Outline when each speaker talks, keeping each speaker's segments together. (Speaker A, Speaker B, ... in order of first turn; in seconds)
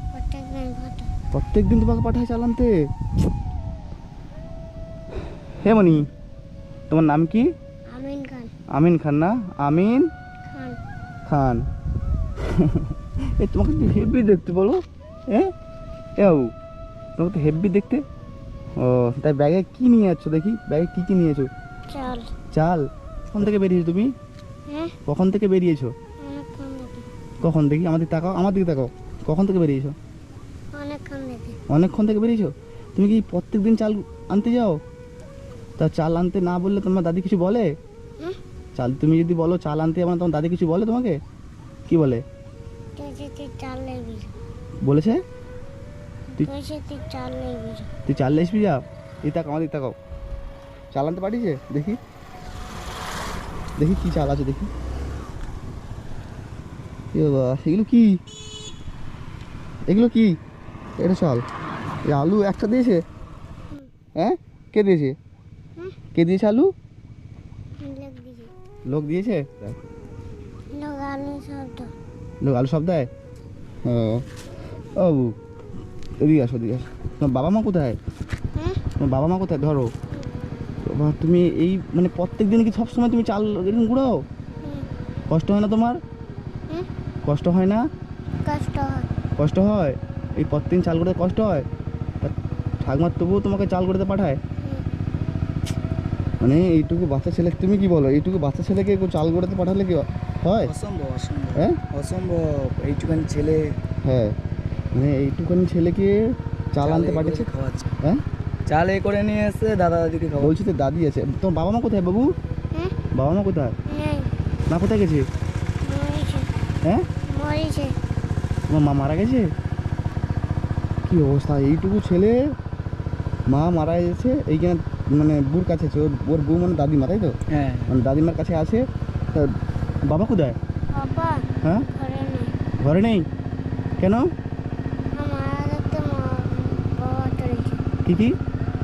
Speaker A: 0.1-1.1, 7.9-8.5, 10.5-10.8, 21.9-22.3, 26.2-27.1, 30.7-31.6, 43.0-44.3, 46.4-47.9, 67.8-68.5, 70.7-71.9, 88.5-89.1, 113.8-114.3, 115.8-116.5, 117.3-118.0, 130.9-132.5, 135.1-137.8
Speaker B: 1.3-2.8, 5.6-6.0, 6.9-7.5, 8.7-10.1, 11.2-11.6, 12.4-15.5, 16.2-16.5, 17.2-18.0, 18.8-21.5, 22.5-24.1, 25.1-25.9, 27.4-29.9, 31.7-34.8, 35.8-37.7, 38.7-41.2, 41.9-42.2, 44.8-45.2, 48.1-50.0, 50.9-52.0, 53.8-54.7, 57.1-58.2, 59.9-60.3, 61.0-61.4, 62.0-63.0, 64.2-65.2, 66.1-66.7, 68.9-69.7, 72.4-73.1, 73.8-74.2, 75.0-75.3, 76.2-78.0, 79.0-79.9, 80.8-84.2, 85.3-86.0, 87.2-87.8, 89.4-91.7, 92.2-94.4, 96.4-100.7, 104.0-104.3, 104.9-106.2, 106.7-107.5, 110.4-112.3, 113.1-113.7, 114.7-115.2, 118.7-119.5, 121.1-122.4, 123.5-127.3, 127.9-128.8, 129.3-130.6, 132.8-133.2, 134.0-134.3, 138.0-138.3
Speaker C: 100.6-103.8, 106.8-107.9, 108.7-110.5, 127.5-127.9